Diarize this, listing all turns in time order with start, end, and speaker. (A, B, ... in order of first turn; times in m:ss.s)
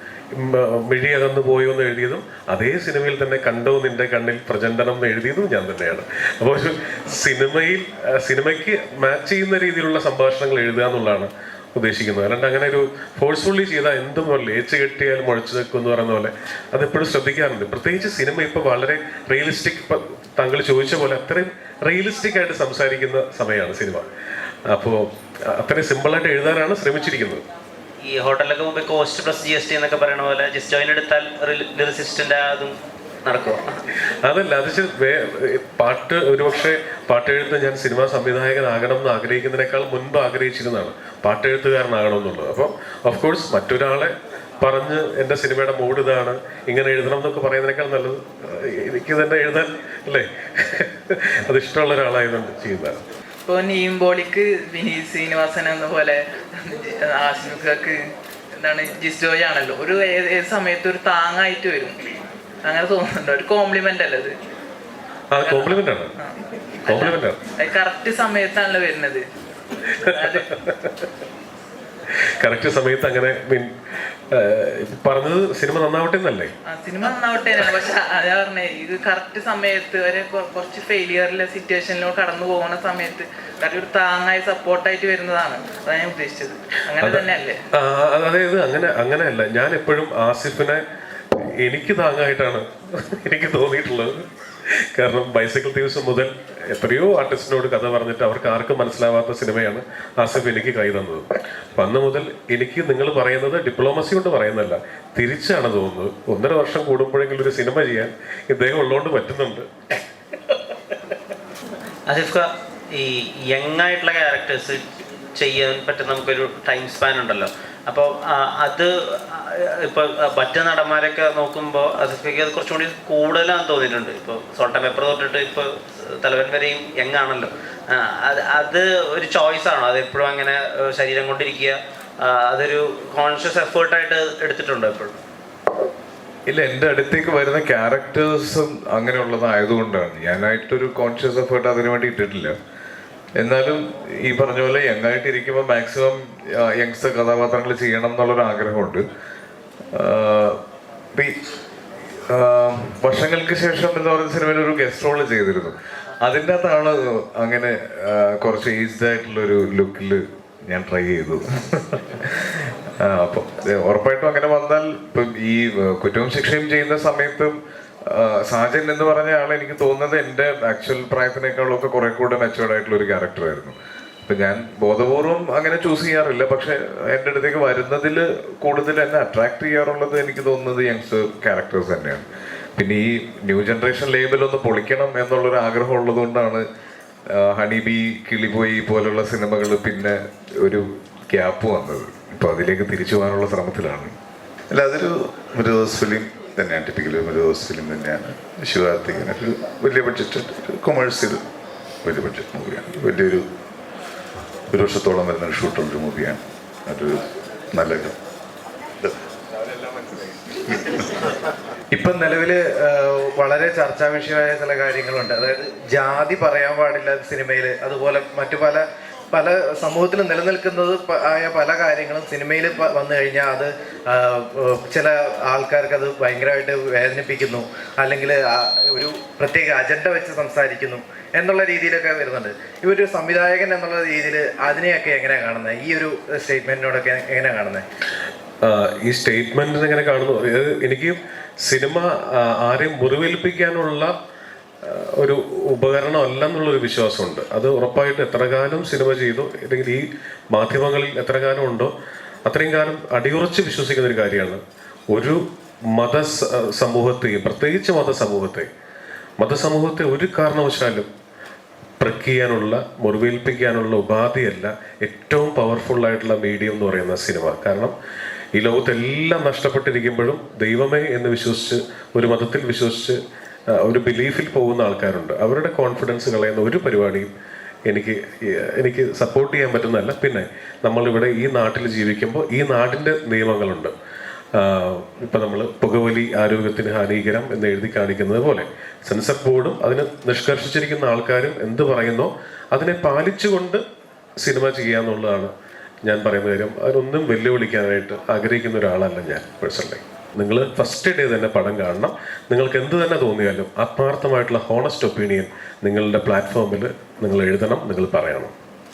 0:00.3-0:24.1 A
0:24.7-0:27.4 A
0:28.0-0:33.6 B
0:34.2-0:53.0 A
0:53.4-0:58.0 C
0:58.6-1:02.0 C
1:02.6-1:04.3 C
1:05.3-1:06.1 A
1:05.4-1:09.2 C
1:06.8-1:07.4 A
1:10.0-1:10.5 C
1:10.6-1:11.0 A
1:12.4-1:13.7 A
1:14.3-1:16.5 A
1:16.7-1:27.6 C
1:27.0-1:30.8 A
1:31.4-1:49.9 A
1:52.1-1:54.8 B
1:55.3-2:05.7 B
2:06.2-2:15.2 B
2:16.5-2:22.5 D
2:23.4-2:29.0 D
2:30.0-2:30.6 D
2:32.3-2:35.7 D
2:36.2-2:42.4 D
2:43.0-2:47.5 D
2:48.1-2:53.7 D
2:54.3-3:02.2 D
3:02.8-3:06.6 D
3:07.4-3:14.1 D
3:14.7-3:21.4 E
3:22.0-3:23.4 E
3:24.7-3:27.1 E
3:27.7-3:28.1 E
3:31.9-3:57.9 F
3:58.6-4:04.1 A
4:04.8-4:11.9 A
4:12.4-4:14.6 A
4:15.1-4:18.7 A
4:19.4-4:21.1 A
4:22.0-4:27.9 A
4:28.5-4:33.2 A
4:33.8-4:37.3 A
4:37.9-4:43.9 A
4:44.6-4:53.8 A
4:54.4-4:55.5 A
4:56.0-5:08.5 A